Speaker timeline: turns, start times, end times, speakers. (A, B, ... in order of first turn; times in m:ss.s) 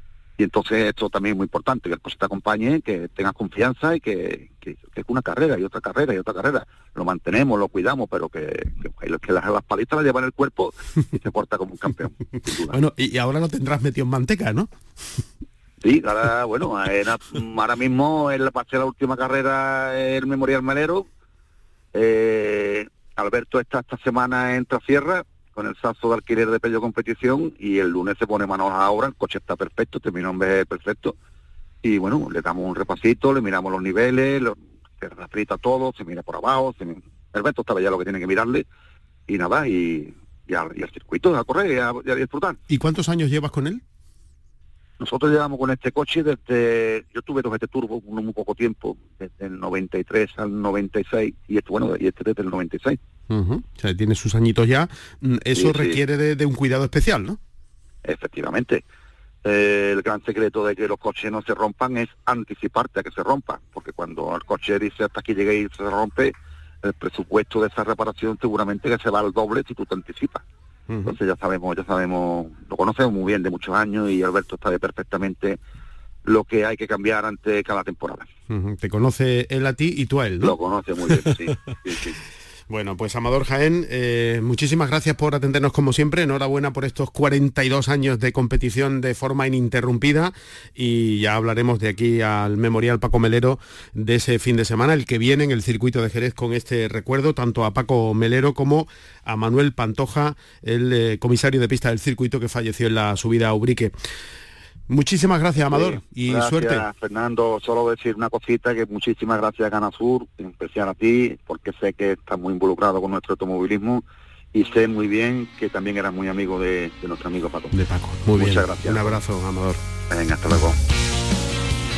0:00.4-0:12.8 A
0:12.6-0:14.7 B
0:15.8-0:21.1 A
0:21.9-0:31.2 A
0:31.8-0:38.7 A
0:39.3-0:42.6 A
0:42.7-0:43.8 B
0:45.0-0:53.0 A
0:53.3-0:57.4 B
0:55.6-0:56.0 A
0:58.0-0:58.8 A
0:59.4-1:10.4 A
1:10.9-1:11.2 B
1:11.1-1:15.6 A
1:16.2-1:18.3 A
1:18.5-1:20.6 B
1:20.4-1:22.2 A
1:21.1-1:21.4 B
1:22.7-1:43.9 B
1:44.9-1:46.9 B
1:45.6-1:57.8 A
1:57.7-1:59.8 B
1:58.3-1:59.2 A
2:00.1-2:00.8 A